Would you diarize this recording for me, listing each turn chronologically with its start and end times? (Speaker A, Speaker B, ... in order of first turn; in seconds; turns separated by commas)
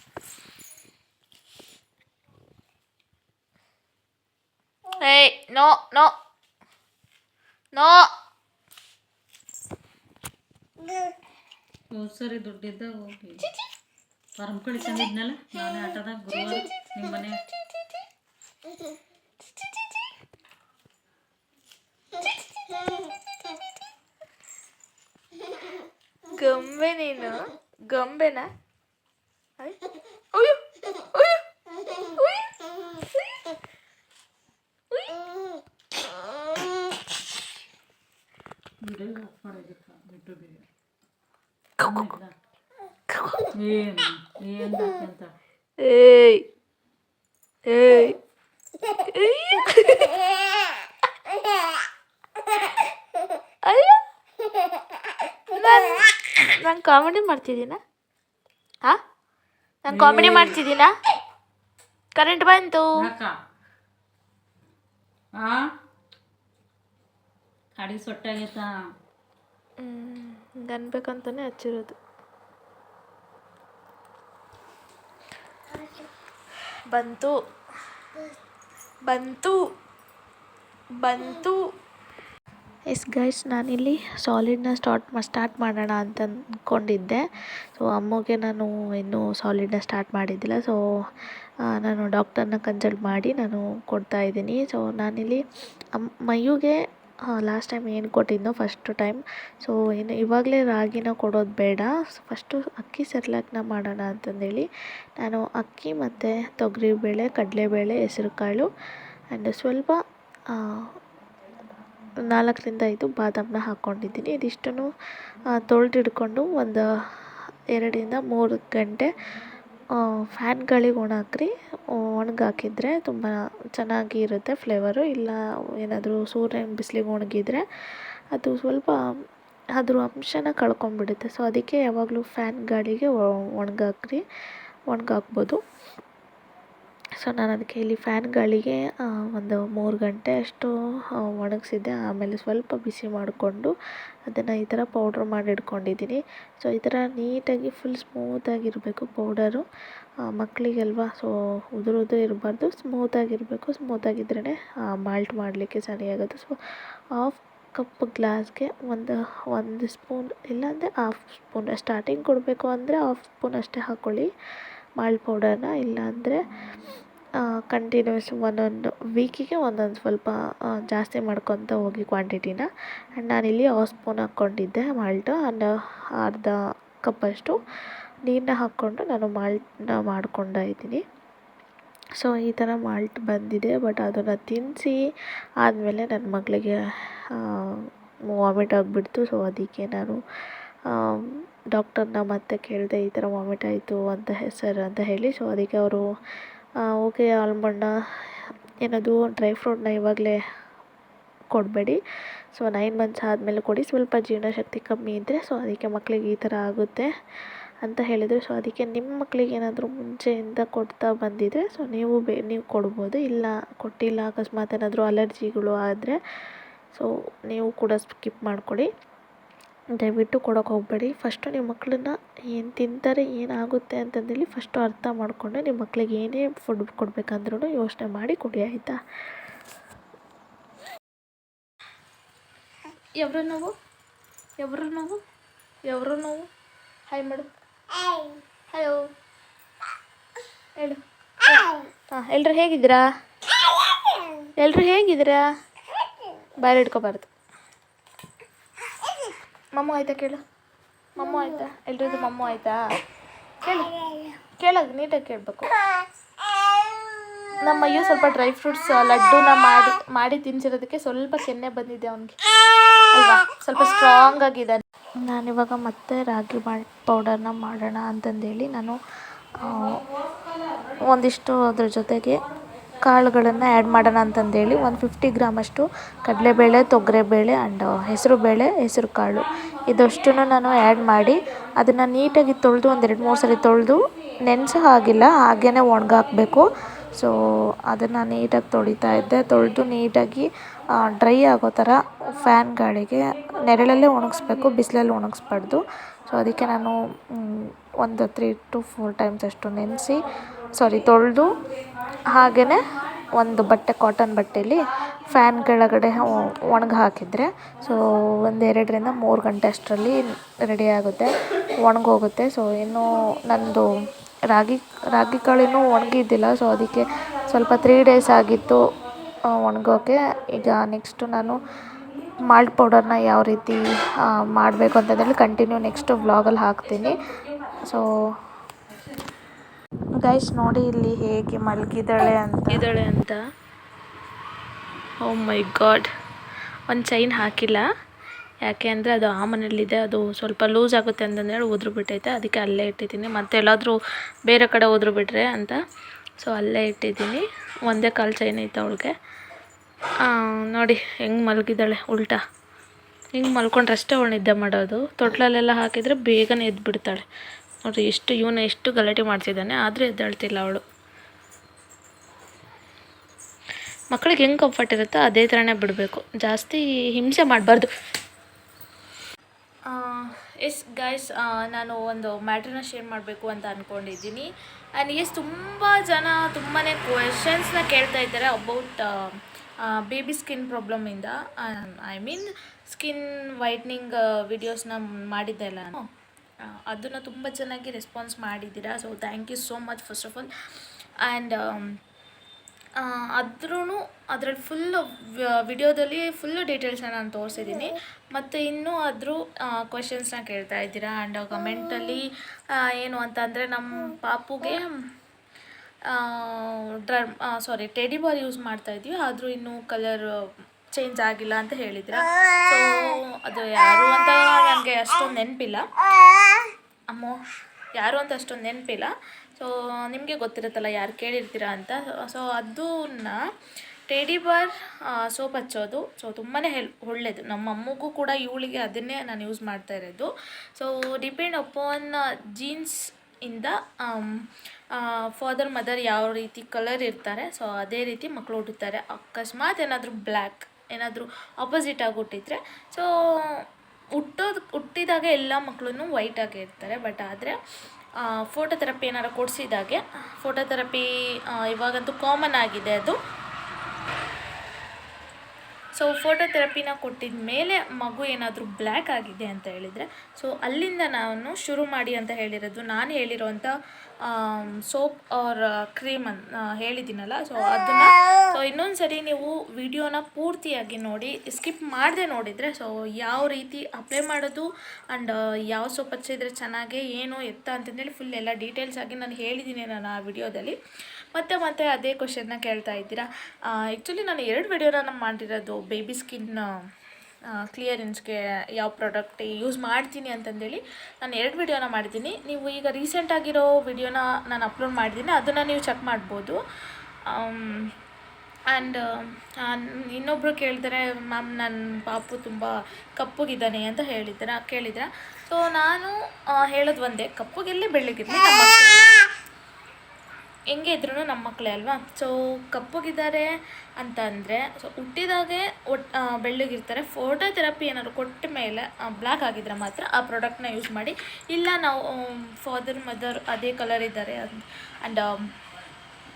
Speaker A: 4.9-6.1, Speaker A: 7.7-8.1, Speaker B: 11.9-13.5, Speaker B: 14.4-17.4, Speaker A: 26.3-28.5, Speaker A: 30.3-33.5, Speaker A: 34.9-35.2, Speaker B: 38.8-40.6, Speaker B: 41.8-42.3, Speaker A: 43.1-43.5, Speaker B: 43.5-45.3, Speaker A: 45.8-46.4, Speaker A: 47.6-48.2, Speaker A: 48.9-50.2, Speaker A: 53.6-54.0, Speaker A: 55.5-57.8, Speaker A: 59.8-60.9, Speaker B: 59.9-60.6, Speaker A: 62.1-62.9, Speaker B: 63.0-63.4, Speaker B: 65.3-65.7, Speaker B: 67.7-68.8, Speaker A: 69.8-72.0, Speaker A: 76.9-77.3, Speaker A: 79.1-79.6, Speaker A: 81.0-81.6, Speaker C: 82.9-90.8, Speaker C: 91.7-95.4, Speaker C: 95.9-96.8, Speaker C: 97.3-108.7, Speaker C: 109.3-110.0, Speaker C: 110.5-110.8, Speaker C: 112.2-114.9, Speaker C: 115.5-116.9, Speaker C: 117.7-119.1, Speaker C: 120.0-127.6, Speaker C: 128.3-129.0, Speaker C: 129.8-134.2, Speaker C: 134.9-135.6, Speaker C: 137.2-140.7, Speaker C: 141.3-143.7, Speaker C: 144.3-149.6, Speaker C: 150.2-156.6, Speaker C: 157.2-164.3, Speaker C: 165.0-166.4, Speaker C: 167.5-177.6, Speaker C: 178.2-181.0, Speaker C: 182.2-185.0, Speaker C: 185.6-186.8, Speaker C: 187.3-190.2, Speaker C: 190.9-196.0, Speaker C: 196.8-197.9, Speaker C: 198.8-200.4, Speaker C: 201.5-202.0, Speaker C: 202.5-207.1, Speaker C: 207.8-216.2, Speaker C: 216.9-218.9, Speaker C: 220.0-229.0, Speaker A: 233.2-233.7, Speaker A: 234.6-235.2, Speaker A: 235.9-236.4, Speaker A: 237.1-237.5, Speaker A: 238.7-239.1, Speaker A: 240.8-243.0, Speaker A: 244.4-245.4, Speaker A: 246.6-247.3, Speaker A: 249.7-250.4, Speaker A: 251.2-252.8, Speaker A: 253.6-255.7, Speaker A: 257.6-262.4, Speaker A: 263.1-264.8, Speaker C: 265.2-269.0, Speaker C: 269.6-270.0, Speaker C: 271.1-272.4, Speaker C: 273.1-279.4, Speaker A: 275.2-275.5, Speaker A: 279.9-280.7, Speaker C: 279.9-281.4, Speaker A: 281.8-282.6, Speaker C: 282.1-284.0, Speaker A: 283.2-283.7, Speaker C: 284.5-286.6, Speaker C: 287.9-300.2, Speaker C: 300.8-301.5, Speaker C: 302.3-311.3, Speaker C: 311.8-313.9, Speaker C: 314.5-318.8, Speaker C: 319.5-321.6, Speaker C: 322.5-327.1, Speaker C: 327.8-328.1, Speaker C: 330.2-332.9, Speaker A: 332.7-333.4, Speaker A: 335.2-336.1, Speaker A: 336.9-337.8, Speaker A: 338.6-344.0, Speaker A: 344.5-345.8, Speaker A: 346.4-349.1, Speaker A: 350.3-352.4, Speaker A: 353.4-357.2, Speaker A: 357.9-360.8, Speaker A: 364.1-367.9, Speaker A: 369.9-374.5, Speaker A: 375.0-386.1, Speaker A: 386.7-390.5, Speaker A: 391.2-392.0, Speaker A: 393.0-404.9, Speaker A: 406.1-410.2, Speaker A: 410.9-415.9, Speaker A: 417.1-417.4, Speaker A: 417.9-423.4, Speaker A: 424.1-434.4, Speaker A: 434.9-443.6, Speaker A: 444.2-447.6, Speaker A: 448.2-453.2, Speaker A: 455.9-463.7, Speaker A: 464.2-480.8, Speaker A: 481.3-486.7, Speaker A: 487.5-496.6, Speaker A: 497.3-497.9, Speaker A: 498.7-509.0, Speaker A: 510.7-525.4